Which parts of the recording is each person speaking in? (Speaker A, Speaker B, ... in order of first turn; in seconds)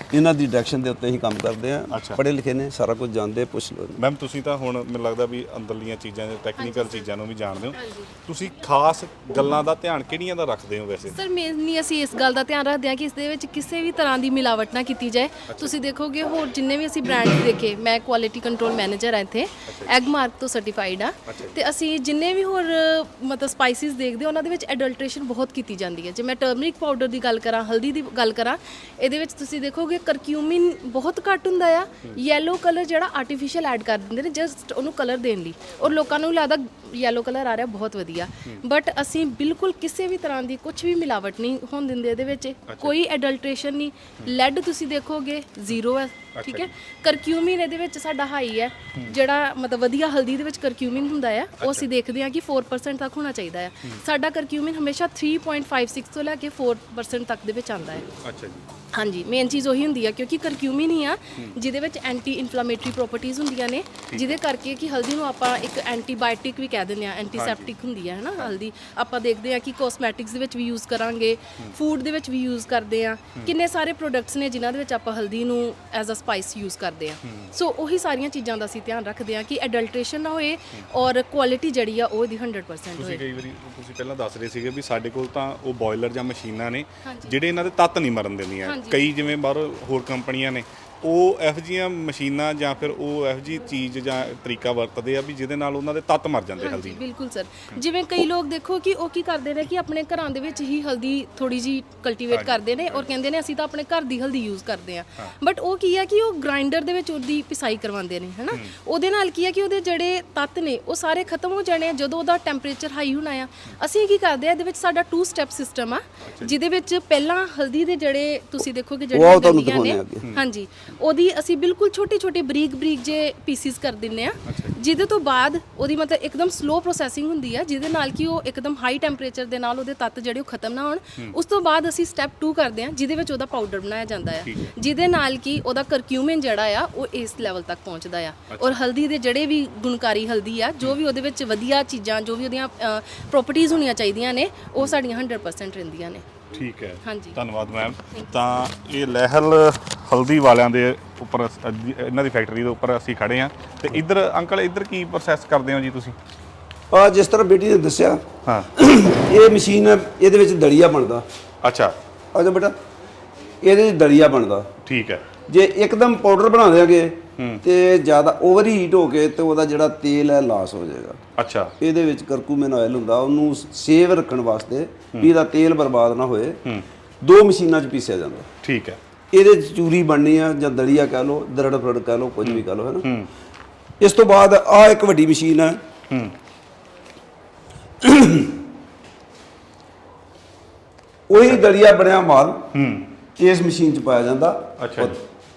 Speaker A: 0.1-4.0, 119.1-120.3, 156.9-161.2, 162.3-162.8, 163.6-164.7, 165.5-171.2, 171.8-176.6, 177.2-178.5, 179.3-183.1, 184.0-185.8, 188.0-188.6, 191.3-192.7, 193.4-195.2
Speaker B: 1.9-2.2, 4.0-11.2, 15.5-15.8, 19.7-19.9, 21.3-21.6, 42.7-43.0, 46.4-46.7, 51.6-51.9, 58.2-58.7, 64.1-64.4, 67.3-67.7, 83.0-97.0, 102.3-103.1, 116.3-116.5, 124.5-124.8, 134.4-134.7, 138.5-138.8, 146.5-156.2, 161.6-161.9, 164.8-165.2, 171.4-171.7, 178.6-179.0, 182.4-183.3, 192.7-193.1, 194.8-195.2
Speaker C: 6.6-7.0, 7.8-8.1, 11.1-58.1, 58.9-83.2, 87.0-87.3, 88.6-89.1, 96.6-146.3, 147.0-147.4